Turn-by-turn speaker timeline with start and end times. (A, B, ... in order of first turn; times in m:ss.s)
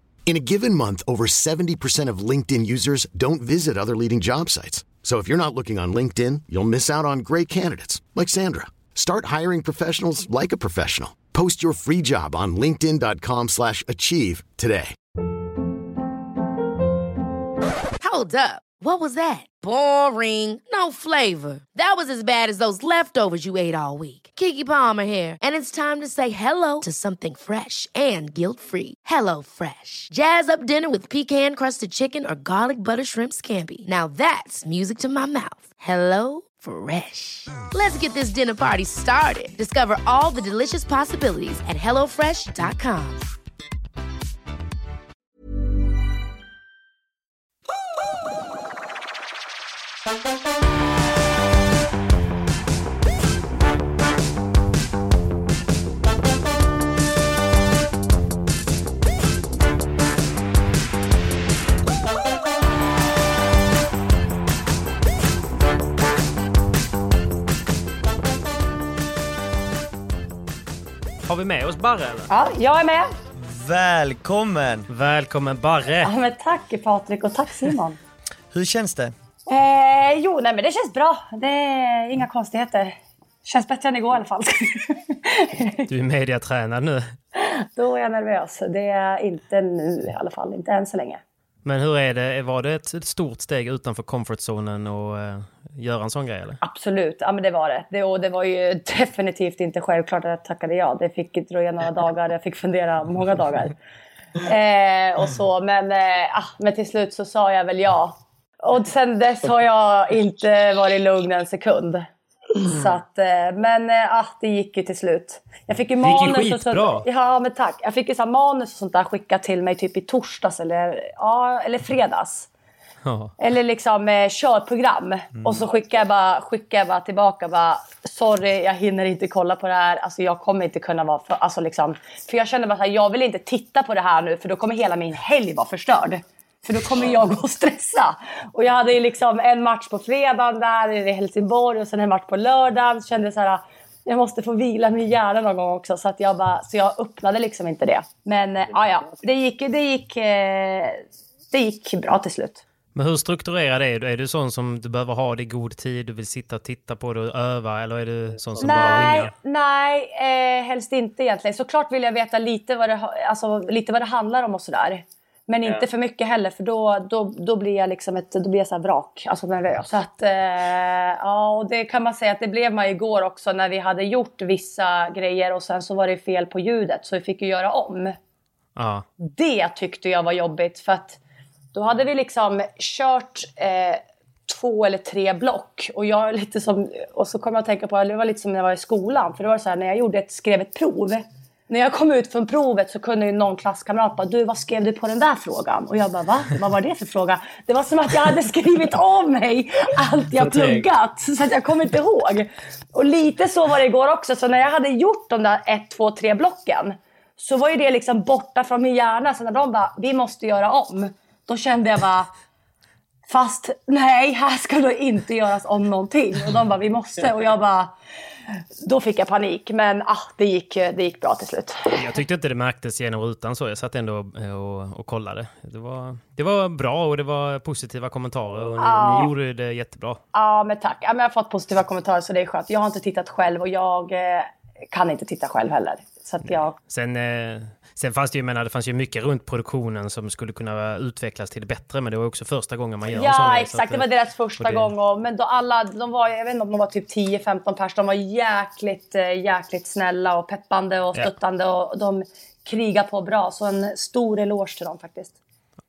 0:00.2-0:15.0 A
0:18.0-0:43.2 B
1:11.2-1:12.3 C
1:12.3-1:13.1 D
1:13.3-1:14.9 E
1:14.9-1:16.1 C
1:16.0-1:18.0 D
1:18.5-1:19.1 E
1:19.5-1:25.9 D
1:25.9-1:27.1 C
1:27.4-1:31.2 D
1:31.6-1:36.6 C
1:36.6-1:43.7 D
1:44.4-2:02.5 D
1:56.0-1:57.0 C
2:03.0-2:03.3 C
2:03.4-2:32.6 D
2:05.3-2:05.6 E
2:32.9-2:39.3 C
2:38.6-2:58.2 D
2:58.8-2:59.0 C
2:59.2-3:01.2 D
3:01.7-3:32.3 D
3:20.3-3:20.8 C
3:33.3-3:37.9 D
3:38.8-3:41.9 D
3:41.9-3:50.2 C
3:48.8-3:49.3 D
3:50.3-3:56.7 D
3:56.9-4:04.0 C
4:03.1-4:15.4 D
4:04.6-4:04.9 C